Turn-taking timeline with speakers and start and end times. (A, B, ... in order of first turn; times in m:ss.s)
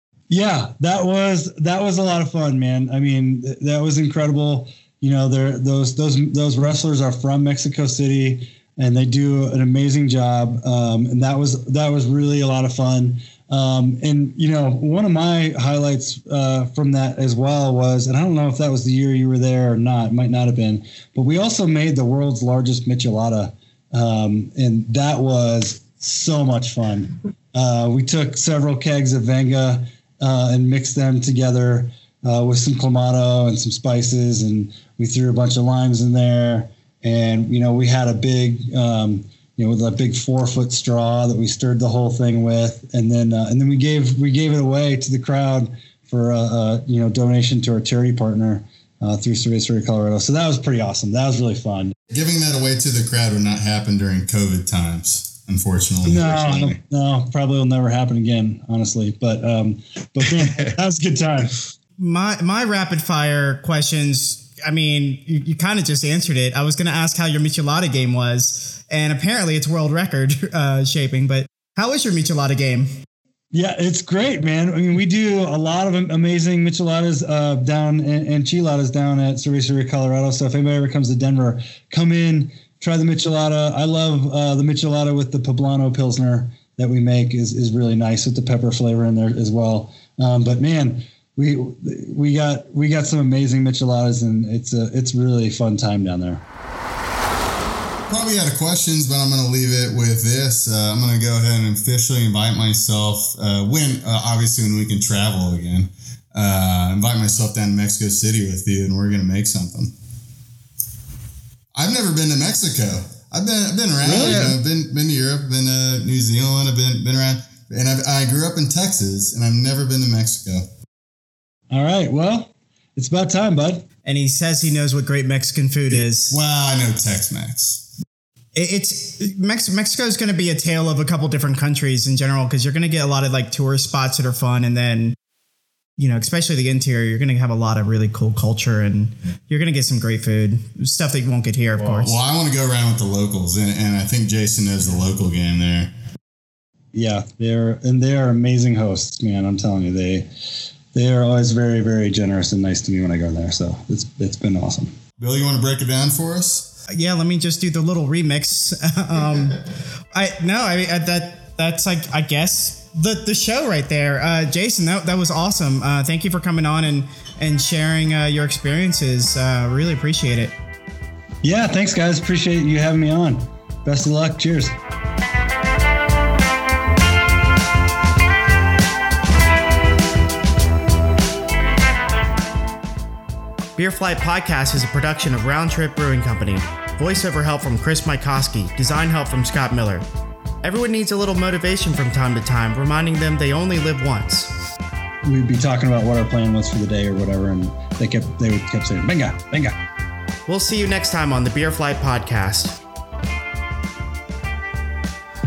0:00.3-0:51.9 A
0:52.1-0:56.8 B
0:56.0-1:01.6 A
1:02.0-1:12.9 C
1:13.5-1:36.4 A
1:38.1-1:49.9 B
1:51.7-2:00.6 B
1:54.0-1:54.6 A
2:01.7-2:03.8 A
2:04.0-2:06.4 C
2:06.0-2:07.8 B
2:08.5-2:15.2 C
2:16.0-2:22.1 C
2:21.8-2:25.9 B
2:26.9-2:30.3 A
2:30.9-2:34.9 A
2:35.2-2:36.7 B
2:36.9-2:39.6 C
2:40.1-2:50.5 C
2:51.4-2:54.8 A
3:03.8-3:10.0 C
3:10.6-3:14.5 C
3:15.2-3:19.8 A
3:20.5-3:22.8 C